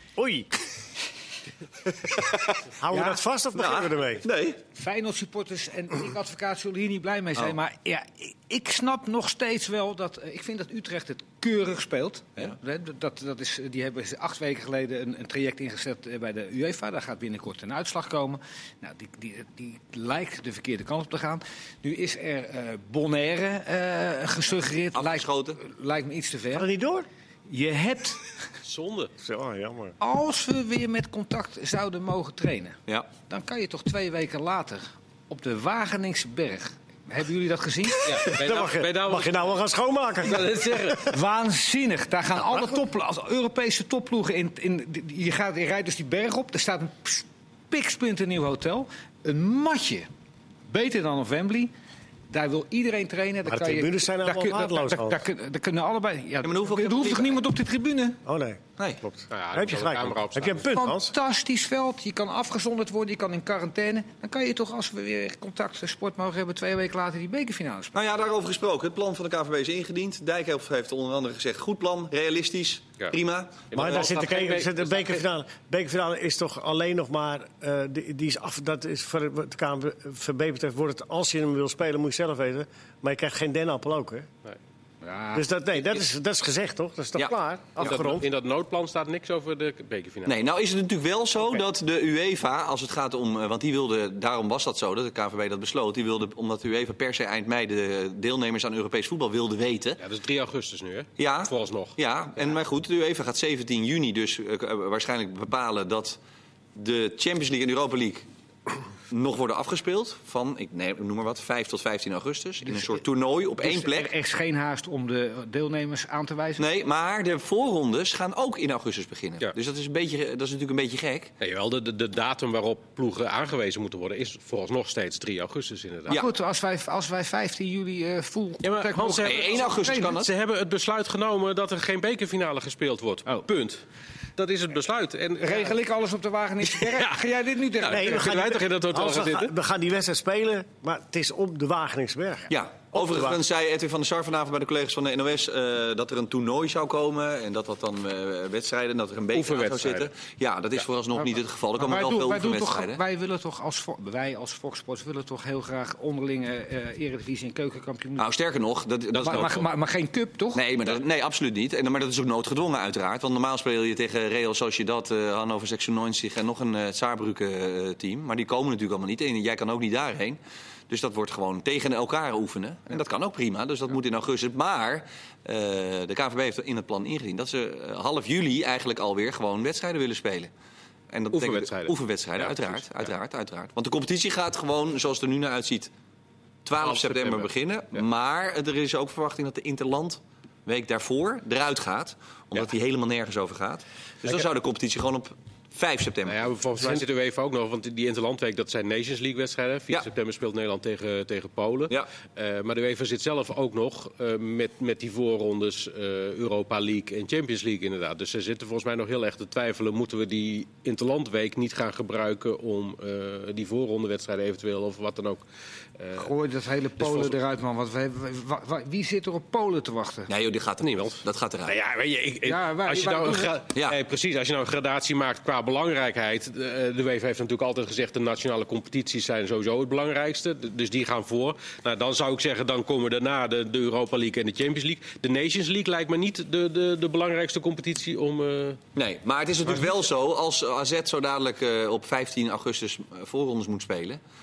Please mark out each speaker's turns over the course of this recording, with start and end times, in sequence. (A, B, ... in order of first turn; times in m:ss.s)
0:00.2-0:00.5 A
0:02.2-0:02.5 B
0:02.8-0:04.2 A
0:02.9-0:03.2 C
0:03.6-0:04.6 B
0:04.7-0:26.7 C
0:24.9-0:25.6 B
0:26.5-0:27.0 A
0:27.5-0:28.2 C
0:28.6-0:29.1 D
0:29.2-0:30.0 A
0:30.0-0:38.3 C
0:38.0-0:39.5 D
0:38.2-0:41.0 A
0:40.2-0:41.0 D
0:41.0-0:50.1 C
0:50.7-0:51.7 C
0:52.3-0:58.2 C
0:53.4-0:55.2 A
0:56.4-0:57.4 B
0:58.2-1:01.1 A
0:59.3-1:00.7 D
1:00.7-1:07.9 C
1:07.9-1:13.8 B
1:13.7-1:15.2 D
1:13.7-1:24.3 A
1:25.0-1:25.4 C
1:25.3-1:28.3 A
1:27.8-1:30.3 D
1:30.2-1:40.0 B
1:40.0-1:41.9 D
1:41.2-1:46.2 B
1:46.7-1:48.3 B
1:49.1-1:54.1 B
1:52.6-1:53.0 C
1:53.6-1:56.6 C
1:56.6-2:01.3 B
2:01.4-2:06.2 D
2:06.1-2:10.1 C
2:08.6-2:13.8 D
2:09.2-2:10.3 B
2:14.4-2:15.8 D
2:15.4-2:18.3 C
2:16.6-2:17.2 D
2:17.8-2:19.5 D
2:17.8-2:23.4 A
2:22.5-2:33.0 B
2:29.3-2:30.1 D
2:31.8-2:38.3 C
2:38.2-2:39.7 B
2:39.1-2:40.6 C
2:40.5-2:50.4 B
2:50.9-3:00.5 B
3:01.1-3:05.9 B
3:01.3-3:03.1 D
3:06.6-3:16.4 B
3:06.8-3:07.5 D
3:16.2-3:35.4 D
3:36.0-3:36.2 D
3:36.1-3:40.3 C
3:37.0-3:37.3 D
3:40.3-3:41.8 B
3:40.8-3:58.8 D
3:42.4-3:43.5 C
3:58.9-4:04.2 B